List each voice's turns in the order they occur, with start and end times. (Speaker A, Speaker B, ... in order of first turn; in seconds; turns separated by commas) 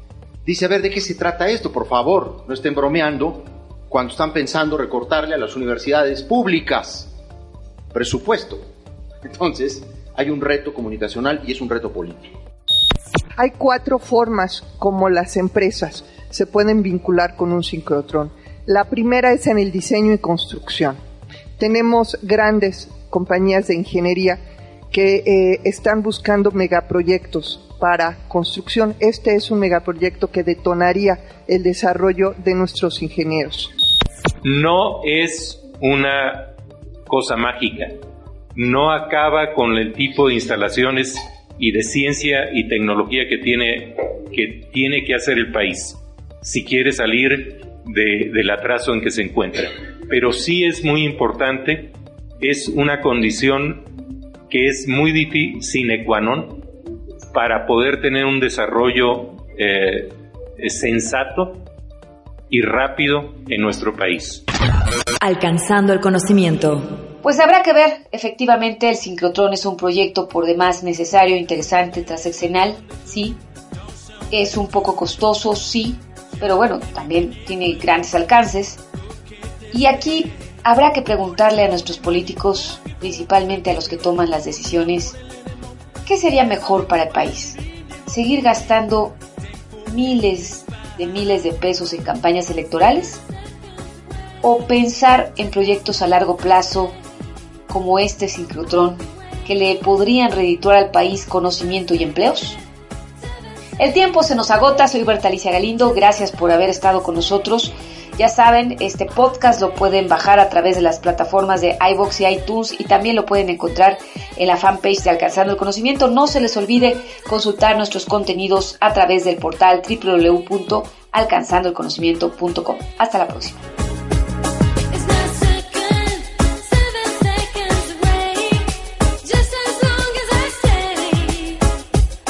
Speaker A: 0.4-7.1, Speaker A: 7.9-8.7, Speaker A: 9.2-12.3, Speaker B: 13.4-21.0, Speaker B: 21.6-24.4, Speaker B: 24.9-33.7, Speaker C: 34.4-36.5, Speaker C: 37.1-38.0, Speaker C: 38.5-54.0, Speaker C: 54.5-56.6, Speaker C: 57.3-61.6, Speaker C: 62.5-64.4, Speaker D: 65.2-66.9, Speaker E: 67.2-73.4, Speaker E: 74.3-78.8, Speaker E: 79.7-85.2, Speaker E: 86.0-89.2, Speaker E: 89.8-93.2, Speaker E: 94.4-96.9, Speaker E: 97.7-102.6, Speaker E: 103.8-123.6, Speaker D: 124.9-128.6, Speaker D: 129.2-131.6